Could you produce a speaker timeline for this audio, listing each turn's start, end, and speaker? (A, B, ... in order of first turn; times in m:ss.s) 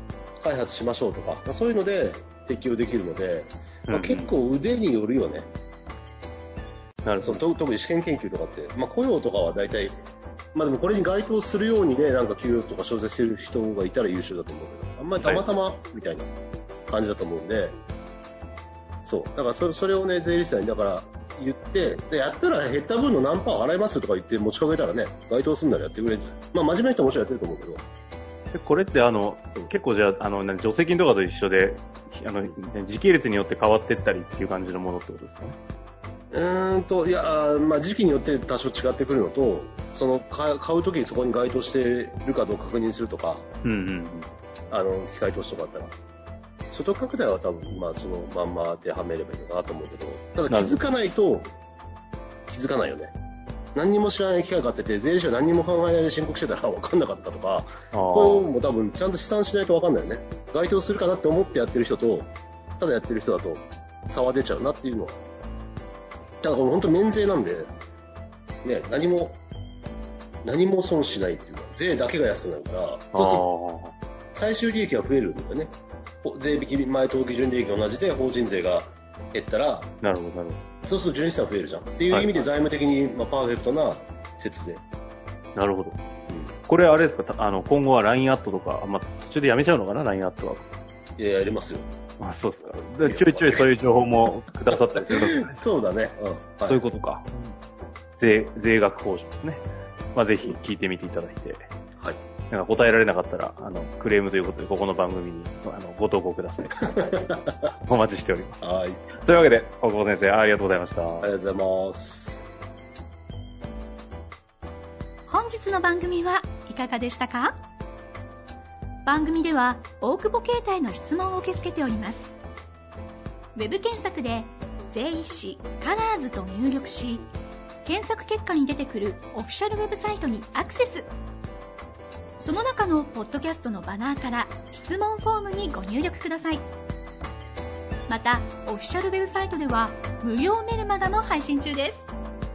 0:00.4-0:05.5 A
0:03.9-0:04.3 B
0:07.0-0:07.4 B
0:07.2-0:10.0 A
0:10.5-0:16.3 A
0:16.9-0:17.8 A
0:19.0-0:27.8 A
0:28.5-0:35.6 B
0:36.3-0:43.5 A
0:43.6-0:44.3 B
0:44.7-0:46.0 A
0:46.7-0:51.6 A
0:50.5-0:50.8 B
0:52.5-0:53.2 A
0:53.8-1:05.2 A
0:57.9-0:58.5 B
1:06.4-1:07.7 A
1:08.6-1:09.4 A
1:10.4-1:13.4 A
1:13.1-1:13.9 B
1:14.3-1:19.9 A
1:20.0-1:20.6 B
1:20.9-1:24.8 A
1:22.1-1:22.5 B
1:25.6-1:26.0 B
1:26.7-1:30.7 B
1:31.2-1:31.9 A
1:32.2-1:35.6 B
1:32.7-1:33.7 A
1:35.1-1:36.9 A
1:36.7-1:37.6 B
1:38.1-1:41.7 B
1:42.5-1:47.1 B
1:47.0-1:47.6 A
1:47.8-1:48.6 B
1:48.6-1:49.0 A
1:49.2-1:51.3 B
1:51.2-1:52.5 A
1:55.3-1:57.6 C
1:59.0-2:02.4 C
2:03.6-2:07.3 C
2:07.8-2:11.1 C
2:12.4-2:16.7 C
2:18.1-2:22.1 C